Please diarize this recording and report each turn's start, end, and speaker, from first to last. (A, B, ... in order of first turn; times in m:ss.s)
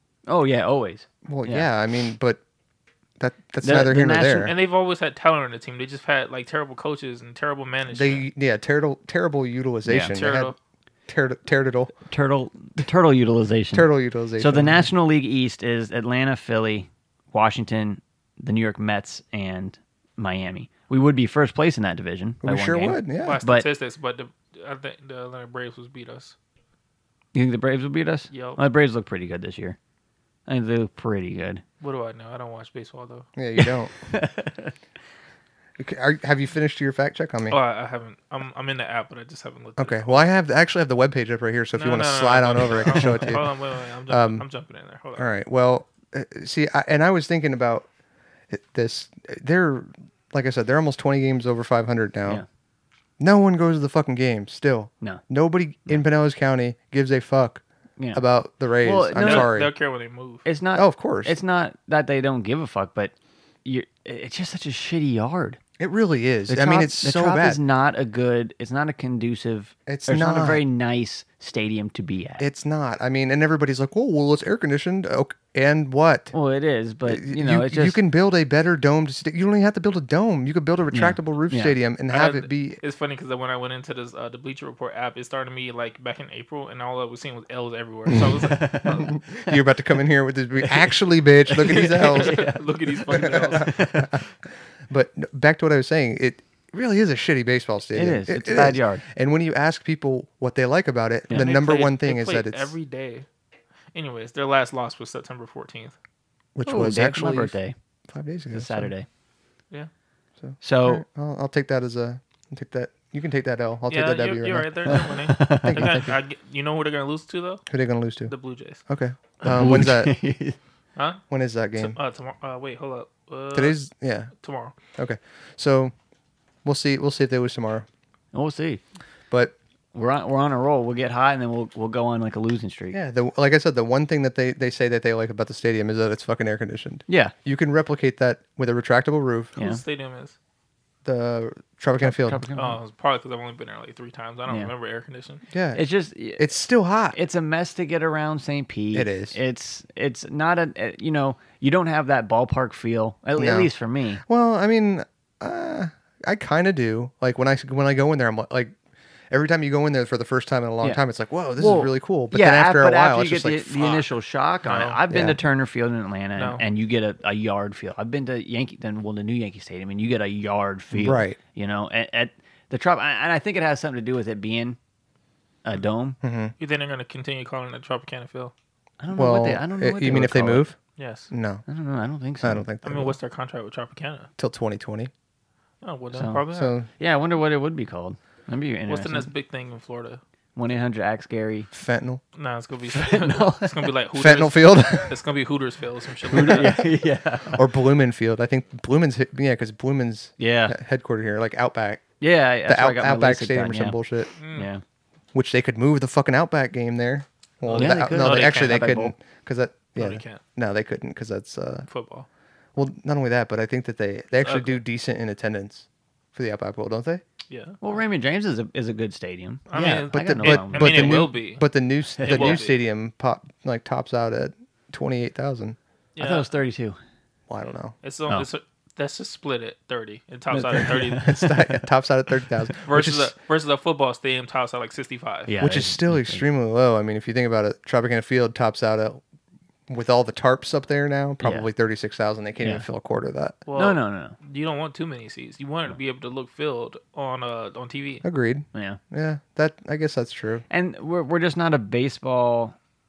0:00.3-0:01.7 A
0:01.2-0:02.4 B
0:03.2-0:04.5 B
0:03.6-0:04.5 A
0:04.4-0:08.2 C
0:07.9-0:10.5 B
0:09.9-0:10.2 A
0:10.1-0:10.5 C
0:11.1-0:11.9 B
0:12.1-0:23.7 A
0:13.7-0:14.9 B
0:22.4-0:23.4 B
0:23.2-0:26.4 C
0:27.3-0:29.8 A
0:28.3-0:28.6 C
0:30.5-0:31.6 A
0:31.8-0:33.3 C
0:33.4-0:33.9 B
0:33.6-0:34.7 A
0:35.8-0:37.6 B
0:37.5-0:40.3 C
0:39.8-0:43.5 B
0:41.8-0:45.3 C
0:44.1-0:44.5 B
0:45.2-0:47.9 B
0:48.5-0:52.4 B
0:53.2-0:57.6 B
0:58.0-0:58.2 A
0:58.1-0:59.7 B
0:58.8-0:59.5 A
0:59.2-1:00.4 C
1:00.4-1:03.1 A
1:00.8-1:01.4 B
1:03.6-1:05.6 A
1:05.8-1:07.6 B
1:06.5-1:12.5 A
1:09.9-1:10.6 B
1:12.4-1:16.3 B
1:16.3-1:18.0 A
1:17.0-1:22.8 B
1:20.9-1:21.8 A
1:22.1-1:29.1 C
1:28.1-1:32.4 B
1:28.1-1:29.5 A
1:31.5-1:34.2 A
1:31.7-1:33.8 C
1:33.1-1:34.2 B
1:34.9-1:42.7 B
1:37.9-1:39.0 A
1:41.3-1:43.2 C
1:43.9-1:45.9 C
1:46.5-1:47.6 B
1:46.6-1:47.8 A
1:48.1-1:48.9 B
1:48.5-1:49.1 A
1:50.4-1:56.1 B
1:50.6-1:51.0 A
1:53.9-1:57.6 C
1:54.9-1:56.0 A
1:57.7-1:58.3 B
1:58.3-1:58.8 C
1:58.9-2:00.1 B
1:59.4-2:00.6 A
2:01.0-2:01.2 C
2:01.3-2:02.0 B
2:01.8-2:03.8 C
2:03.5-2:04.3 B
2:04.4-2:04.7 C
2:04.9-2:05.9 B
2:06.6-2:07.9 B
2:08.3-2:08.8 A
2:09.9-2:13.0 A
2:12.9-2:19.5 B
2:17.1-2:17.3 A
2:19.6-2:20.4 C
2:21.0-2:22.4 B
2:22.0-2:22.8 A
2:22.5-2:25.4 C
2:25.5-2:25.8 B
2:25.8-2:26.5 A
2:26.4-2:27.2 B
2:27.1-2:34.2 A
2:28.9-2:29.4 B
2:33.4-2:33.7 B
2:34.3-2:38.7 B
2:39.3-2:44.0 B
2:41.6-2:54.8 A
2:44.6-2:45.0 C
2:45.1-2:45.4 B
2:46.4-2:46.6 C
2:50.9-2:51.4 B
2:55.6-2:56.2 A
2:56.2-2:56.5 B
2:56.6-2:58.5 C
2:59.0-3:00.7 A
2:59.1-3:00.8 B
3:01.0-3:01.3 C
3:01.3-3:01.6 B
3:01.7-3:02.6 A
3:02.4-3:03.2 B
3:02.8-3:04.3 C
3:04.4-3:05.1 B
3:05.8-3:06.7 C
3:06.1-3:06.4 A
3:06.5-3:06.9 B
3:07.0-3:09.3 A
3:08.9-3:10.2 C
3:10.5-3:11.7 A
3:11.7-3:12.2 B
3:12.4-3:16.8 C
3:12.9-3:13.9 A
3:14.1-3:15.2 B
3:16.3-3:16.7 B
3:16.3-3:17.6 A
3:17.5-3:22.0 B
3:20.4-3:20.8 A
3:22.2-3:24.0 A
3:22.6-3:24.3 B
3:24.4-3:24.7 C
3:24.5-3:24.8 A
3:25.3-3:31.9 B
3:27.6-3:28.8 C
3:27.8-3:29.1 A
3:30.0-3:30.4 C
3:31.9-3:32.3 C
3:32.8-3:37.2 B
3:34.4-3:34.8 C
3:37.5-3:37.8 C
3:37.8-3:41.2 A
3:39.7-3:41.7 C
3:39.8-3:45.8 B
3:42.2-3:42.6 A
3:42.2-3:42.8 C
3:46.2-3:46.5 C
3:46.2-3:47.0 A
3:47.5-3:47.9 B
3:48.0-3:51.3 C
3:50.5-3:51.9 A
3:50.7-3:53.4 B
3:52.8-3:55.5 C
3:55.5-3:56.4 A
3:55.6-3:59.2 B
3:59.9-4:03.6 B
4:01.4-4:01.7 A
4:02.6-4:02.8 A
4:03.6-4:08.2 C
4:03.8-4:04.4 A
4:08.2-4:10.6 B
4:08.7-4:09.0 A
4:10.7-4:12.8 A